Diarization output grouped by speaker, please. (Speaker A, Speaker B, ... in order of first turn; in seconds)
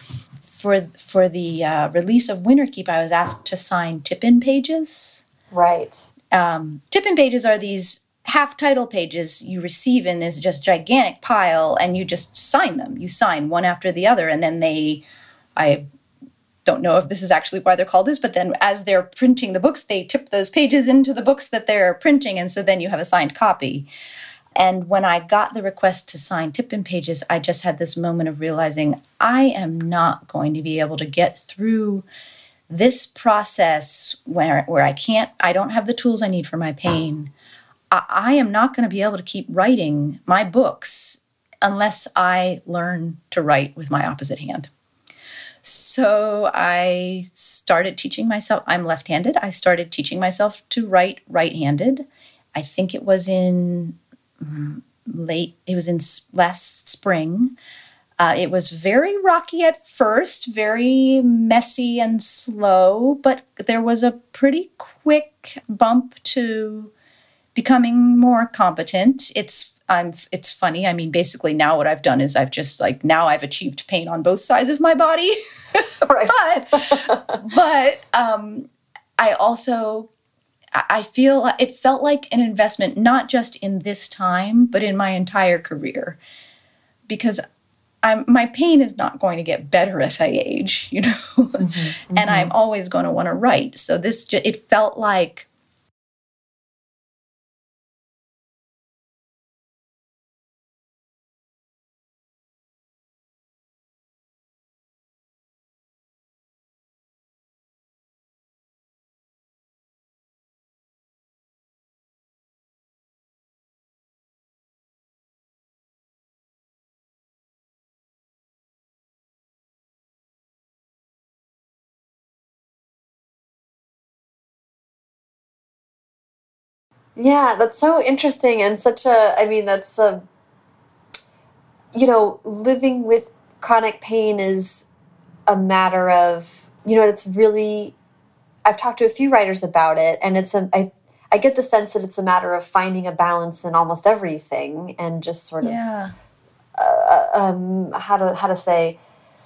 Speaker A: 0.4-5.2, 6.3-15.0, 15.6-15.8, 16.6-23.9, 24.6-32.0, 32.7-37.3, 37.9-44.7, 45.6-57.5, 58.2-66.9, 67.5-80.1, 80.8-86.2, 87.1-87.4, 88.0-95.5, 145.6-146.1
Speaker B: 5.5-6.1, 76.0-77.4, 91.6-92.5, 127.2-130.2, 131.9-134.9, 135.5-137.9, 138.7-145.9, 146.8-149.0